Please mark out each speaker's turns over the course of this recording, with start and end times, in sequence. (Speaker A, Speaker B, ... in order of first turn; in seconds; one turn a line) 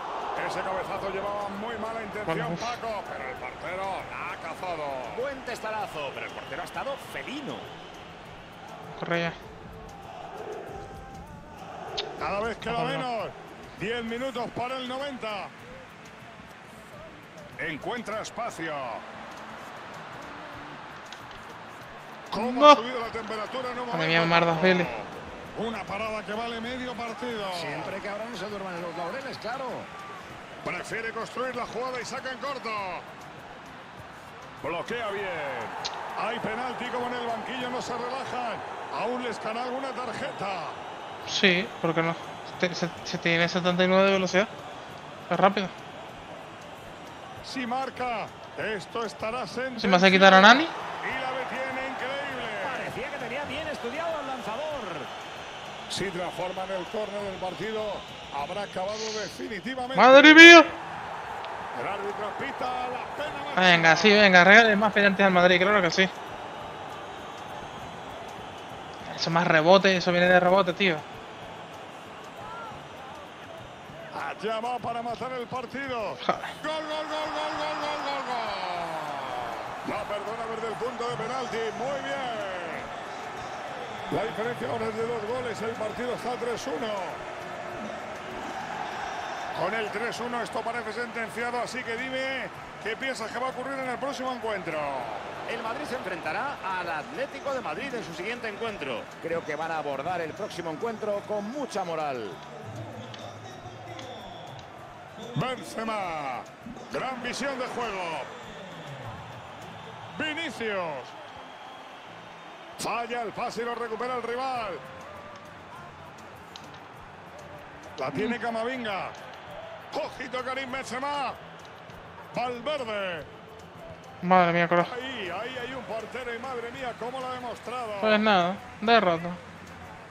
Speaker A: 0.3-5.3
Speaker B: 2.3-2.8
Speaker C: 5.1-7.7
Speaker B: 8.9-9.4
Speaker A: 12.2-15.5
Speaker B: 12.7-13.1
Speaker A: 17.6-19.0
Speaker A: 22.3-28.0
Speaker B: 22.4-22.8
Speaker B: 23.9-24.9
Speaker C: 27.5-29.9
Speaker A: 30.6-33.1
Speaker A: 34.6-40.8
Speaker B: 41.3-44.5
Speaker B: 45.3-45.8
Speaker A: 47.4-52.9
Speaker B: 49.8-50.7
Speaker C: 52.6-55.1
Speaker A: 55.9-60.7
Speaker B: 60.0-60.7
Speaker A: 61.8-64.2
Speaker B: 63.6-66.1
Speaker B: 69.0-71.0
Speaker A: 74.1-82.9
Speaker B: 76.2-76.6
Speaker A: 84.1-87.2
Speaker A: 89.5-95.3
Speaker C: 95.5-102.4
Speaker A: 105.3-108.3
Speaker A: 110.1-111.2
Speaker A: 112.8-114.8
Speaker A: 118.0-119.2
Speaker A: 119.9-121.4
Speaker A: 122.3-123.3
Speaker B: 124.2-124.9
Speaker A: 124.8-128.2
Speaker B: 128.0-129.4